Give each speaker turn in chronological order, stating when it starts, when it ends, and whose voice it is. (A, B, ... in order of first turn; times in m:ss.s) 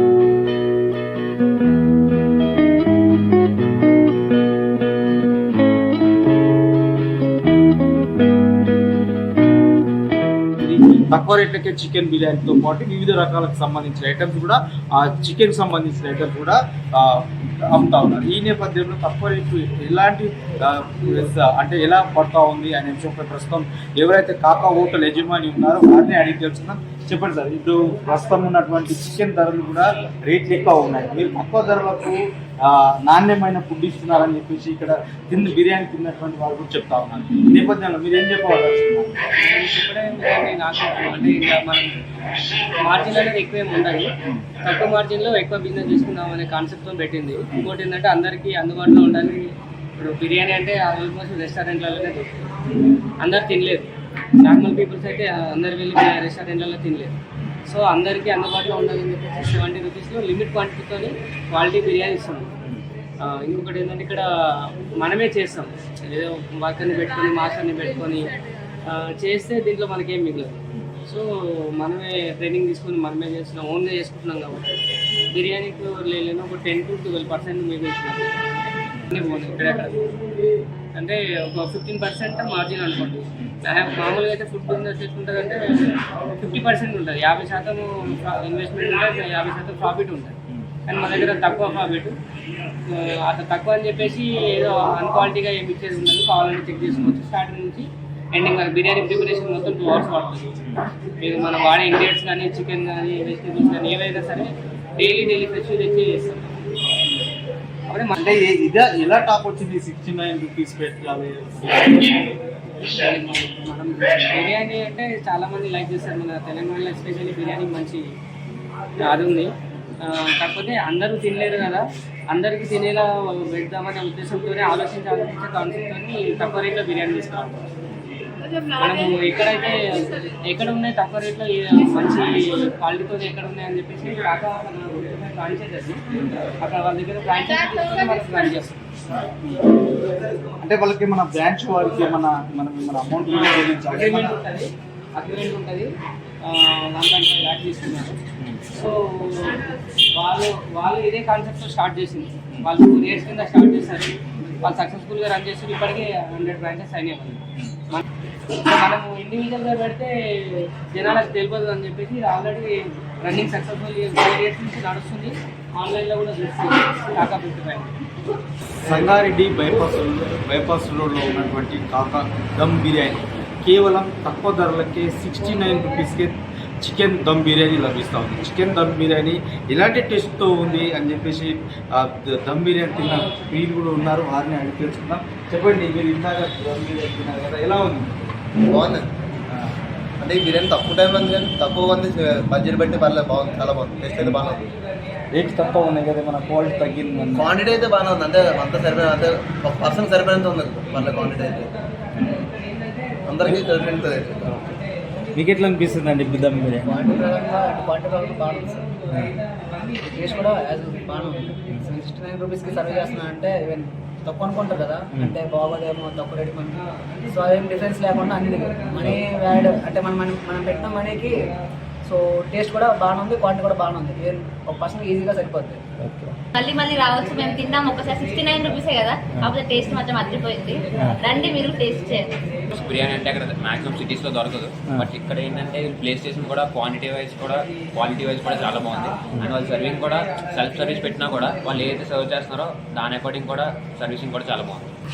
0:10.6-0:39.2 A
0:39.3-0:41.9 B
0:42.7-0:52.5 B
0:53.1-0:53.9 B
0:54.4-1:02.5 B
1:03.2-1:14.8 B
1:15.3-1:18.3 B
1:19.1-1:20.3 B
1:20.9-1:32.2 B
1:32.8-1:40.5 B
1:41.2-1:46.6 B
1:47.8-1:48.3 B
1:48.1-1:52.4 A
1:52.8-1:58.0 B
1:59.0-2:07.6 B
2:08.7-2:18.8 B
2:20.6-2:24.4 A
2:23.7-2:25.9 B
2:26.4-2:28.1 B
2:28.7-2:47.9 B
2:48.8-3:08.3 A
3:08.7-3:09.1 C
3:10.2-3:14.7 C
3:15.3-3:17.5 A
3:17.3-3:21.7 C
3:22.1-3:22.4 A
3:23.3-3:24.3 C
3:24.2-3:24.5 D
3:25.3-3:27.1 A
3:26.9-3:28.8 D
3:29.5-3:29.8 B
3:30.1-3:36.7 D
3:37.3-3:41.3 D
3:42.1-3:45.8 D
3:46.0-3:46.3 A
3:46.5-3:52.3 E
3:52.7-4:04.9 F